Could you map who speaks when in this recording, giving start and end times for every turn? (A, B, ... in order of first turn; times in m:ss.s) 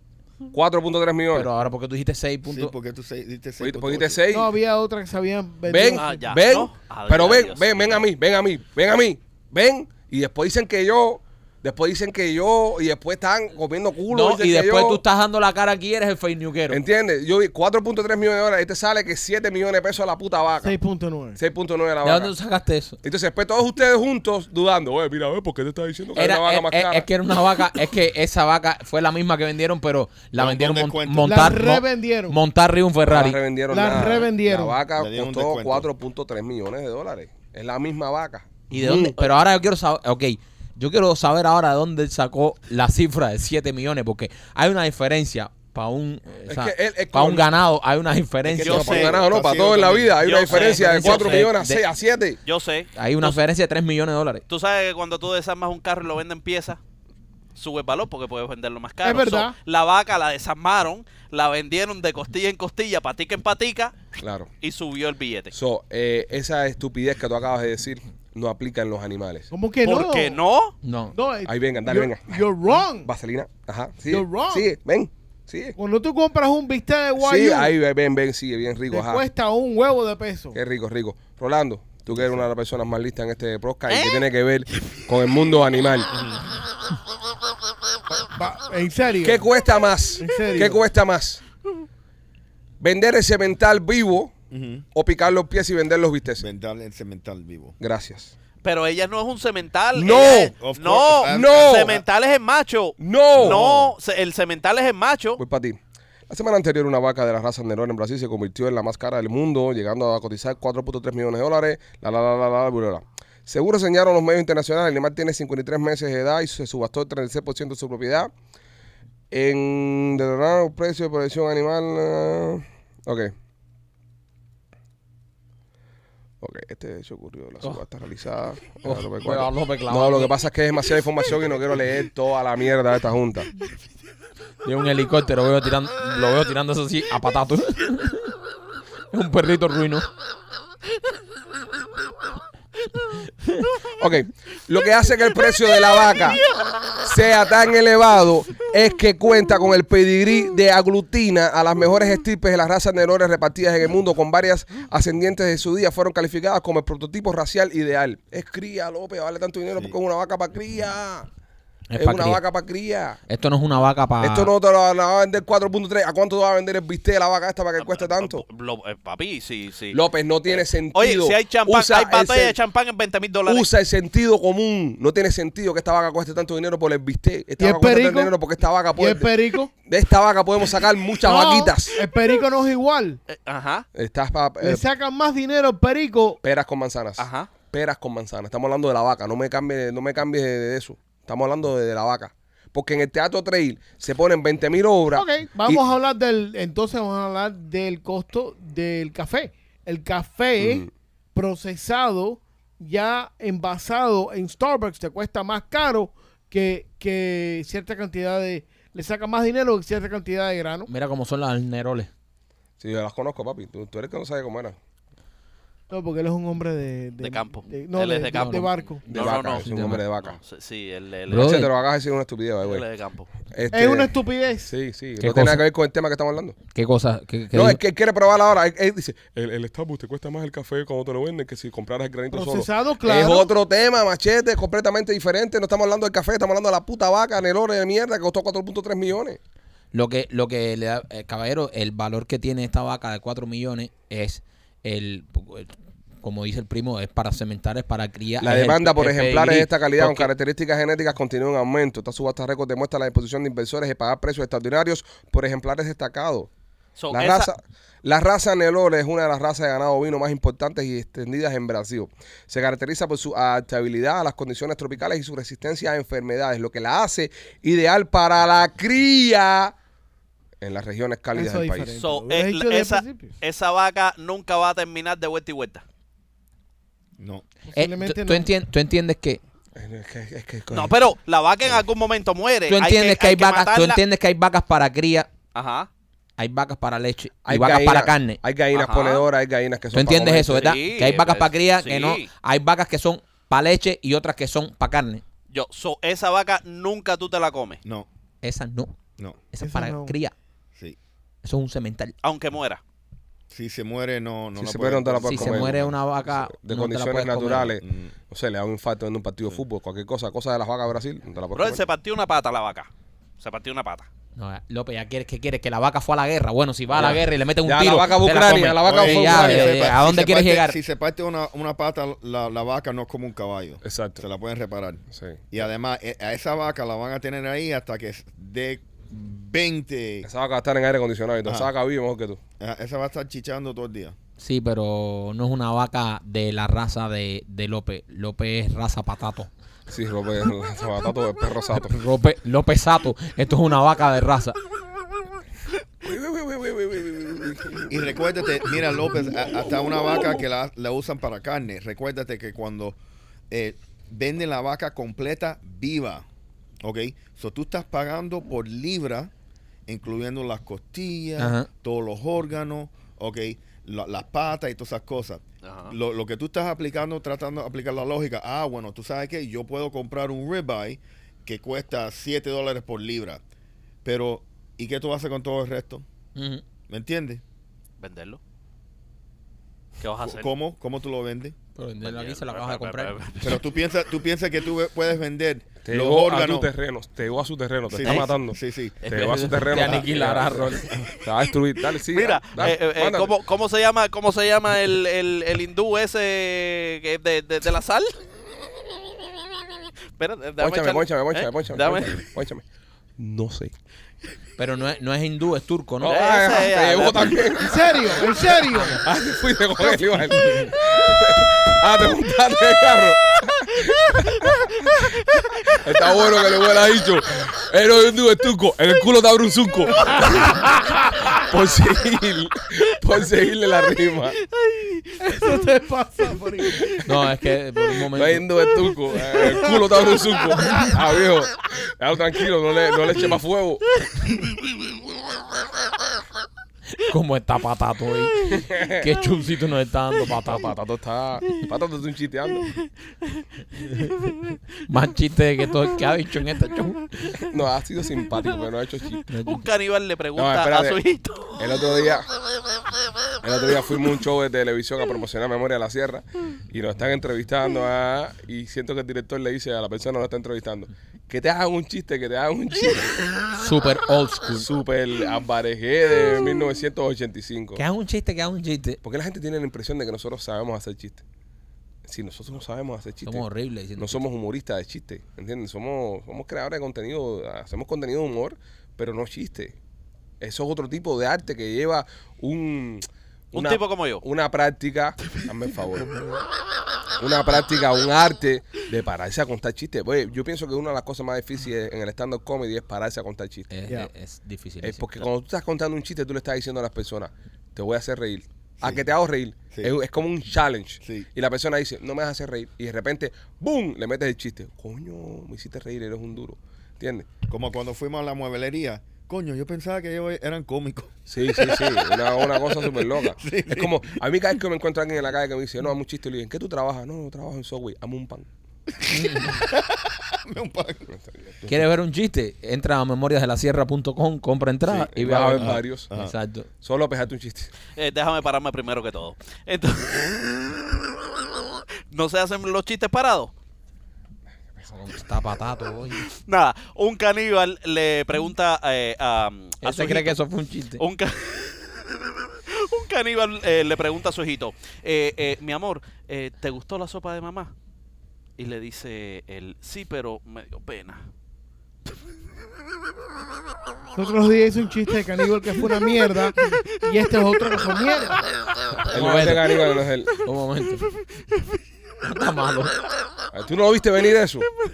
0:00.5-0:01.5 A
0:01.3-0:02.7 B
0:02.4-0:04.2 C
0:03.6-0:04.5 A
0:04.3-0:06.2 D
0:05.6-0:15.0 A
0:05.9-0:08.0 E
0:14.1-0:16.8 B
0:16.7-0:20.7 A
0:20.6-0:21.4 D
0:21.4-0:22.3 A
0:22.0-0:23.0 B
0:23.0-0:27.1 A
0:26.1-0:33.4 B
0:30.4-0:31.5 C
0:31.2-0:32.4 D
0:33.1-0:39.2 A
0:33.7-0:34.8 D
0:35.0-0:35.9 C
0:38.7-0:49.0 B
0:46.5-0:47.5 A
0:48.4-0:50.2 C
0:48.6-0:49.2 E
0:48.6-0:52.4 A
0:50.2-0:51.5 E
0:50.5-0:51.8 B
0:52.4-0:53.4 E
0:52.9-0:54.4 B
0:54.5-0:56.8 E
0:57.6-1:04.0 E
0:59.0-0:59.6 D
1:04.2-1:04.5 A
1:04.6-1:05.5 E
1:05.5-1:09.5 A
1:09.5-1:10.4 D
1:09.8-1:10.7 E
1:10.8-1:11.1 B
1:11.1-1:13.1 D
1:11.4-1:12.5 A
1:13.0-1:15.8 A
1:14.1-1:14.7 D
1:15.8-1:17.7 D
1:17.2-1:19.2 A
1:18.9-1:20.6 D
1:20.5-1:26.1 A
1:22.1-1:22.4 C
1:23.9-1:24.2 E
1:26.1-1:26.4 C
1:28.1-1:29.5 D
1:29.2-1:31.4 A
1:30.2-1:30.8 D
1:32.8-1:34.3 A
1:34.5-1:34.8 C
1:34.9-1:36.4 A
1:36.4-1:37.8 C
1:37.8-1:38.3 A
1:38.6-1:45.4 E
1:39.9-1:40.5 A
1:40.3-1:42.0 C
1:41.2-1:42.0 A
1:43.0-1:43.9 A
1:43.4-1:43.6 C
1:45.4-1:58.3 A
1:59.3-2:03.3 A
2:06.4-2:13.5 A
2:08.8-2:10.3 B
2:14.6-2:18.3 B
2:19.1-2:20.1 B
2:24.0-2:26.4 A
2:27.0-2:41.3 A
2:41.9-2:42.4 B
2:42.0-2:43.2 A
2:43.3-2:44.5 B
2:44.2-2:48.4 A
2:47.8-2:53.7 E
2:49.9-2:52.5 A
2:53.5-2:59.3 A
2:57.6-2:58.3 D
2:59.0-2:59.7 D
2:59.8-3:02.0 A
3:01.2-3:03.2 D
3:03.3-3:03.8 E
3:03.9-3:04.8 A
3:04.6-3:06.4 D
3:06.4-3:15.8 A
3:07.2-3:07.5 E
3:15.1-3:30.9 D
3:20.6-3:20.9 A
3:30.9-3:32.1 B
3:32.8-3:34.8 A
3:35.9-3:39.0 D
3:37.2-3:41.6 E
3:38.3-3:38.7 B
3:39.0-3:40.4 A
3:39.4-3:40.0 B
3:41.3-3:41.7 B
3:41.3-3:42.8 A
3:42.6-3:43.3 E
3:43.5-3:44.1 A
3:43.7-3:44.7 D
3:44.7-3:46.6 A
3:45.2-3:45.6 B
3:46.7-3:47.8 B
3:47.5-3:59.4 A
3:52.3-3:53.5 D
3:59.9-4:10.3 B
4:08.4-4:16.5 A
4:17.0-4:17.5 E
4:17.1-4:29.7 A
4:30.6-4:31.9 A
4:31.3-4:33.3 D
4:32.0-4:35.8 E
4:37.2-4:37.4 C
4:37.7-4:38.5 D
4:37.7-4:39.4 B
4:39.7-4:40.9 A
4:40.7-4:44.0 E
4:42.7-4:45.3 B
4:45.5-4:45.9 E
4:46.4-4:48.4 B
4:47.4-4:50.7 A
4:48.7-4:49.3 E
4:49.9-4:55.2 B
4:50.5-4:52.3 E
4:55.5-4:57.8 E
4:58.4-4:58.9 B
4:59.5-5:00.3 B
4:59.6-5:00.2 D
5:01.4-5:02.1 B
5:02.2-5:02.8 E
5:03.5-5:05.9 C
5:04.6-5:11.9 A
5:05.2-5:07.8 B
5:07.8-5:08.1 C
5:11.5-5:14.1 E
5:14.4-5:20.8 B
5:17.0-5:19.9 A
5:18.8-5:30.3 C
5:23.8-5:24.2 A
5:25.1-5:25.4 A
5:30.2-5:32.4 A
5:31.4-5:31.7 C
5:32.6-5:34.1 C
5:34.4-5:39.5 B
5:39.9-5:42.0 A
5:41.7-5:44.6 B
5:46.0-5:48.1 A
5:47.9-5:53.0 C
5:53.5-5:56.2 C
5:56.8-5:59.3 C
5:59.9-6:13.4 C
6:01.4-6:01.7 B
6:05.6-6:05.9 E
6:14.0-6:16.0 C
6:16.3-6:16.6 B
6:16.9-6:17.4 C
6:18.0-6:18.4 E
6:20.0-6:20.5 E
6:20.2-6:21.5 C
6:21.8-6:23.5 B
6:22.0-6:23.6 E
6:23.4-6:26.7 C
6:25.8-6:33.3 A
6:27.8-6:29.0 C
6:28.0-6:28.3 E
6:29.0-6:30.9 B
6:29.7-6:30.1 C
6:31.9-6:38.2 E
6:40.2-6:42.2 E
6:40.6-6:42.6 A
6:43.2-6:43.7 A
6:44.6-6:46.6 B
6:46.0-7:04.4 A
6:46.0-6:47.5 E
6:47.6-6:49.0 D
6:48.7-6:49.0 B
6:50.3-6:50.7 B
7:00.3-7:00.8 D
7:04.4-7:05.6 E
7:05.2-7:06.9 D
7:07.0-7:08.4 B
7:08.1-7:13.8 A
7:09.3-7:10.0 D
7:10.5-7:11.0 D
7:17.0-7:20.7 B
7:18.5-7:19.1 A
7:20.4-7:22.7 A
7:23.4-7:24.6 E
7:24.9-7:27.5 B
7:27.4-7:29.2 A
7:29.2-7:31.8 E
7:29.3-7:29.6 B
7:30.4-7:31.0 A
7:31.6-7:32.3 A
7:33.4-7:43.2 A
7:43.5-7:44.7 B
7:44.5-7:47.8 A
7:47.8-7:49.0 B
7:49.0-7:51.2 A
7:52.0-7:53.4 A
7:53.2-7:54.2 B
7:54.0-7:59.7 A
8:00.4-8:06.2 A
8:03.5-8:04.2 E
8:07.2-8:13.7 A
8:13.7-8:15.2 B
8:14.8-8:27.3 A
8:19.7-8:20.0 C
8:21.0-8:21.3 C
8:27.5-8:34.2 C
8:31.3-8:38.5 A
8:39.1-8:41.1 C
8:39.1-8:39.6 B
8:41.2-8:41.5 A
8:41.7-8:46.7 B
8:44.9-8:46.1 A
8:45.6-8:46.3 C
8:46.8-8:47.7 A
8:47.9-8:53.5 E
8:54.9-8:56.3 B
8:56.3-9:00.4 E
8:59.8-9:01.0 B
9:01.0-9:07.7 E
9:08.6-9:11.2 E
9:14.1-9:18.4 D
9:18.9-9:19.8 B
9:19.1-9:20.4 A
9:20.4-9:21.0 B
9:22.2-9:23.0 B
9:23.5-9:24.7 A